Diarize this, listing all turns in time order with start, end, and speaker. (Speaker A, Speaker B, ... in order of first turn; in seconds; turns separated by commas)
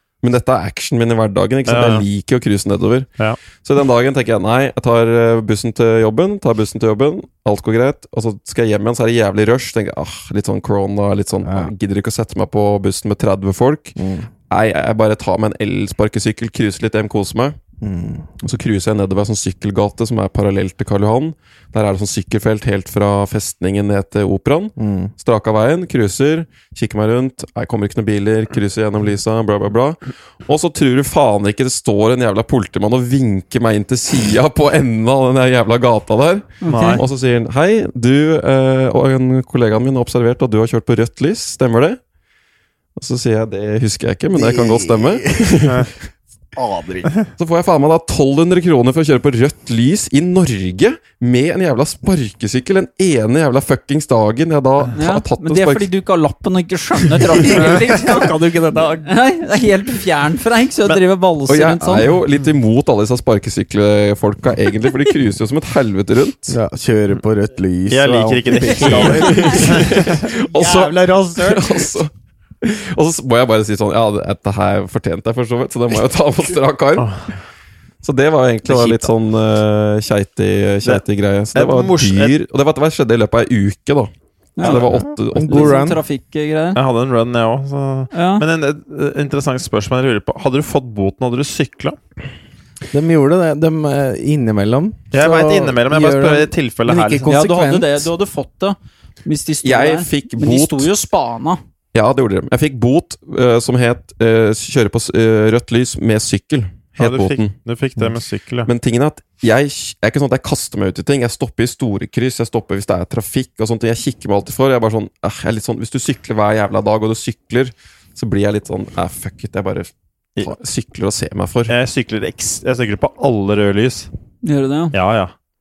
Speaker A: 0.2-3.1, Speaker B: 1.7-2.0, Speaker A: 3.6-13.9, Speaker C: 11.4-11.7, Speaker C: 14.0-14.3, Speaker A: 14.5-17.6, Speaker C: 17.8-18.3, Speaker A: 18.4-42.0, Speaker C: 24.8-25.1, Speaker D: 36.6-37.0, Speaker B: 36.6-37.0, Speaker A: 43.0-45.9, Speaker C: 44.3-45.7, Speaker C: 46.5-47.1, Speaker A: 47.4-55.9, Speaker D: 54.9-58.3, Speaker C: 57.3-59.1, Speaker D: 59.0-62.1, Speaker A: 61.5-66.6, Speaker C: 66.5-72.0, Speaker B: 67.9-70.1, Speaker A: 69.0-77.2, Speaker B: 77.0-77.2, Speaker A: 78.0-85.8, Speaker C: 78.7-79.1, Speaker B: 81.5-82.3, Speaker D: 84.6-86.8, Speaker C: 84.8-86.0, Speaker B: 86.7-92.0, Speaker D: 88.1-88.5, Speaker C: 92.9-98.1, Speaker B: 95.1-97.3, Speaker D: 97.3-101.6, Speaker A: 99.6-100.9, Speaker A: 101.9-107.5, Speaker B: 107.0-108.7, Speaker A: 108.7-121.7, Speaker B: 121.7-124.1, Speaker D: 124.4-124.9, Speaker B: 124.9-125.3